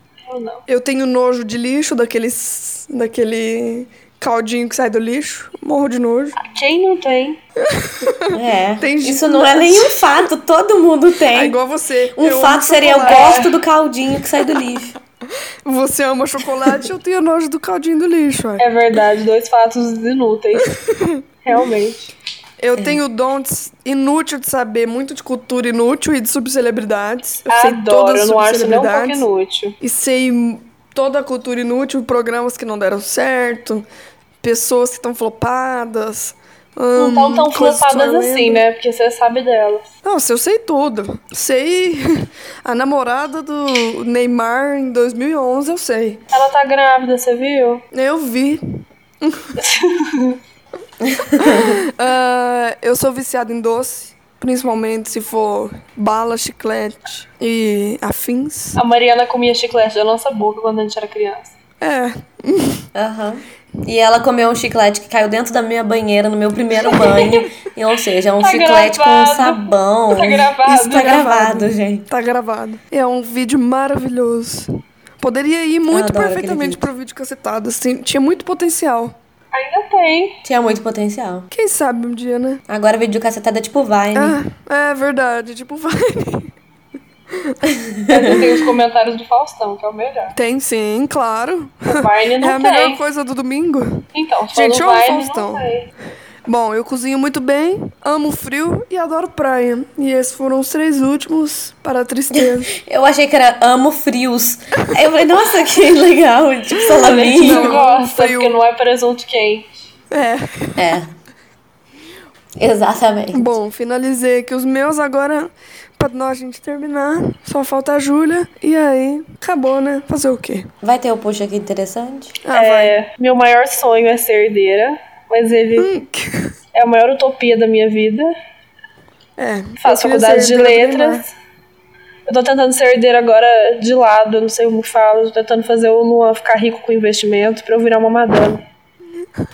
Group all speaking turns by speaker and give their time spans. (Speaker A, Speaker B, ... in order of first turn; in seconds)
Speaker A: 0.2-0.6, 6.4-7.4, 13.1-13.6, 18.6-20.7, 21.4-22.1, 27.5-29.8, 37.0-39.9, 46.3-47.8, 49.6-50.4, 58.8-61.5, 68.4-71.3, 79.5-80.4, 88.1-90.3, 91.9-93.0, 94.1-95.9, 106.9-109.9, 122.5-125.9, 126.7-128.3, 129.8-131.3, 132.3-138.6
Speaker B: 0.7-6.4, 7.6-10.1, 11.3-13.4, 15.6-18.6, 20.6-21.2, 22.6-29.2, 29.8-33.8, 34.4-38.6, 40.0-46.2, 47.9-49.6, 51.3-58.8, 61.8-62.9, 66.9-67.3, 70.7-79.1, 81.5-82.6, 84.1-86.5, 87.3-87.6, 90.3-95.7, 96.5-102.7, 106.8-108.6, 110.1-111.0, 113.3-120.7, 122.4-122.9, 125.8-126.5, 129.4-131.2
Speaker C: 8.3-11.6, 12.1-14.9, 51.0-51.8, 62.9-72.0, 75.9-76.9, 80.4-81.5, 82.7-84.4, 87.7-88.4, 102.3-107.8, 110.8-111.1, 112.6-113.5, 120.8-122.3